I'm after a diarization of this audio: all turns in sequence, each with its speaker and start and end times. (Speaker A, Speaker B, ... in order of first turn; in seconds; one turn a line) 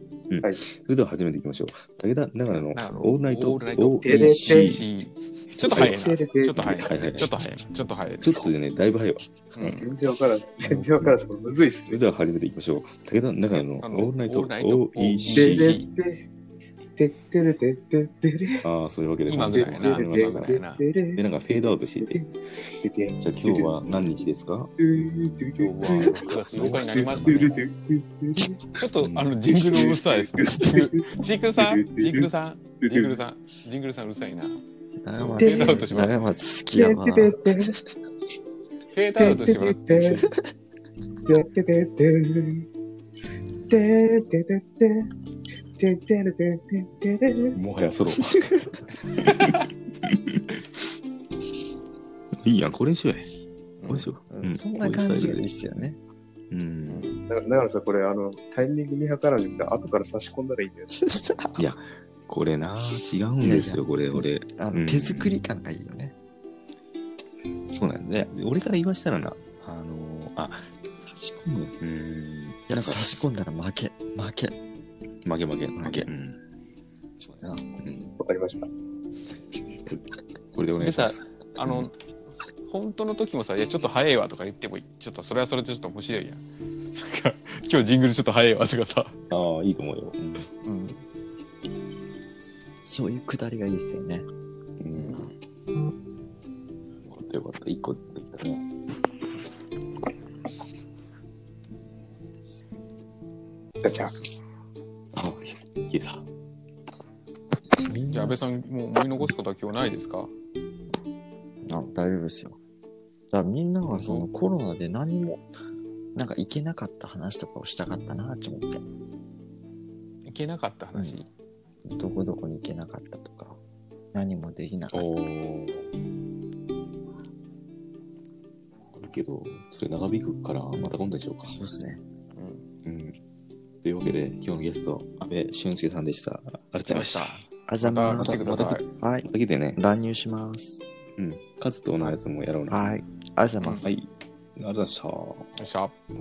Speaker A: 0.3-4.8
Speaker B: 2.5-8.5
Speaker C: 4.0-4.8
Speaker A: 5.5-6.0
Speaker C: 5.7-6.8
Speaker A: 6.7-7.3
Speaker A: 8.2-9.3
Speaker B: 9.5-9.9
Speaker C: 9.6-12.0
Speaker A: 10.6-11.2
Speaker A: 11.8-15.8
Speaker B: 13.6-15.9
Speaker C: 15.3-16.3
Speaker C: 16.9-18.7
Speaker A: 18.6-20.6
Speaker B: 19.2-20.9
Speaker C: 19.5-22.3
Speaker A: 21.1-24.7
Speaker C: 22.8-24.2
Speaker C: 24.8-28.6
Speaker B: 25.6-27.6
Speaker A: 25.8-27.5
Speaker B: 28.8-34.6
Speaker A: 29.0-29.3
Speaker C: 29.5-31.0
Speaker C: 31.6-32.3
Speaker C: 32.8-33.2
Speaker D: 35.0-37.4
Speaker B: 35.1-36.2
Speaker C: 35.4-35.9
Speaker C: 36.7-37.7
Speaker B: 38.9-40.3
Speaker C: 39.1-40.2
Speaker D: 40.1-40.5
Speaker C: 41.2-42.6
Speaker C: 43.7-45.1
Speaker C: 45.8-47.6
Speaker A: 47.5-49.3
Speaker B: 49.1-49.6
Speaker A: 50.1-50.4
Speaker A: 52.4-53.3
Speaker B: 53.8-54.1
Speaker A: 53.9-55.5
Speaker D: 54.3-56.0
Speaker A: 56.5-57.1
Speaker B: 56.9-57.2
Speaker C: 57.3-60.9
Speaker D: 61.1-61.6
Speaker A: 61.6-65.4
Speaker D: 63.4-66.1
Speaker A: 67.7-73.1
Speaker D: 72.7-74.6
Speaker A: 75.2-76.4
Speaker D: 75.8-76.1
Speaker A: 77.2-78.1
Speaker C: 78.1-78.7
Speaker A: 80.5-81.2
Speaker B: 80.8-81.9
Speaker B: 82.6-89.2
Speaker A: 89.3-90.5
Speaker B: 90.6-91.0
Speaker D: 92.8-94.2
Speaker A: 94.8-95.3
Speaker B: 94.9-95.3
Speaker A: 97.1-98.6
Speaker C: 103.8-104.1
Speaker B: 103.8-104.3
Speaker A: 105.1-106.2
Speaker D: 107.8-108.5
Speaker B: 108.1-110.3
Speaker D: 111.6-112.6
Speaker D: 113.3-115.4
Speaker B: 113.9-114.3
Speaker D: 116.1-118.8
Speaker B: 120.2-121.3
Speaker D: 120.9-121.2
Speaker D: 121.8-123.6
Speaker D: 124.1-125.1
Speaker A: 124.9-125.8
Speaker A: 128.9-131.6
Speaker D: 131.4-132.0
Speaker B: 132.3-132.6
Speaker A: 132.8-133.2
Speaker A: 133.8-137.4
Speaker B: 136.9-138.9
Speaker D: 137.7-140.9
Speaker A: 138.1-139.8
Speaker A: 141.2-142.9
Speaker D: 142.7-143.9
Speaker A: 143.8-145.6
Speaker B: 145.6-146.0